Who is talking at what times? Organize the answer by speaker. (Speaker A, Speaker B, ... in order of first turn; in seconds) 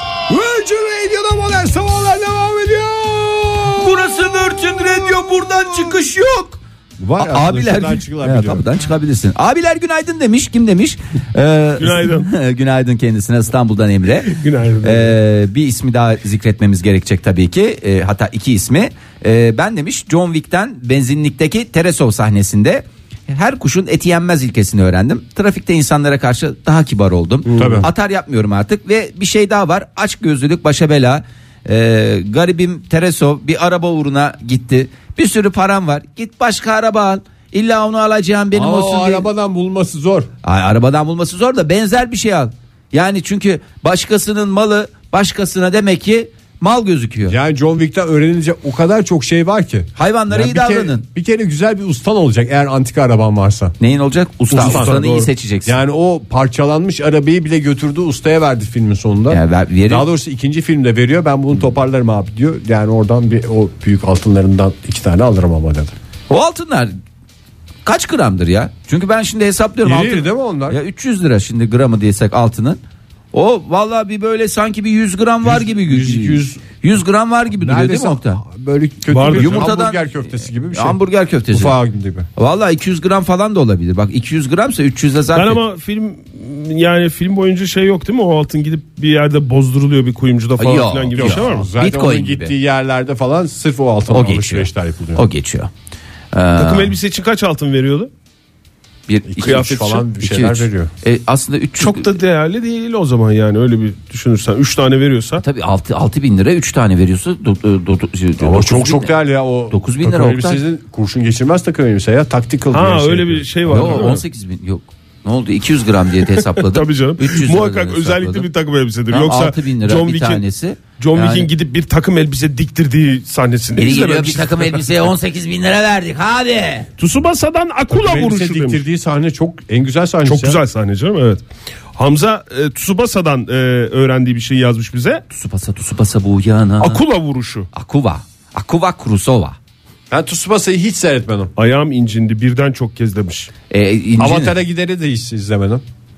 Speaker A: 0.3-4.0, 7.0-8.7, 27.6-27.9, 38.5-40.3, 47.3-53.8, 54.6-55.0, 55.7-65.9, 69.8-70.8, 75.4-76.6, 77.6-81.0, 81.5-82.3, 91.2-95.2, 99.3-100.9, 108.4-114.2, 127.9-130.6, 140.1-141.5, 144.2-145.8
Speaker B: 3.7-6.6, 7.2-39.3, 40.4-47.4, 50.0-51.0, 53.8-55.8, 59.3-60.1, 66.3-67.0, 67.8-72.8, 73.3-78.4, 79.2-80.1, 80.7-81.8, 82.4-85.6, 90.6-92.5, 94.1-95.7, 96.3-96.9, 99.1-102.1, 105.4-109.2, 109.7-110.6, 113.7-118.5, 119.1-121.5, 123.8-126.9, 135.3-137.0, 137.7-139.6, 143.7-144.6
Speaker C: 11.8-12.3, 14.3-15.2, 27.5-27.9, 54.5-55.3, 79.1-79.7, 85.3-91.7, 96.6-98.1, 99.4-100.0, 101.8-105.4, 112.7-114.2, 116.5-120.4, 121.0-124.8, 127.0-128.8, 130.3-131.4, 132.0-135.2, 136.8-137.7, 141.6-143.5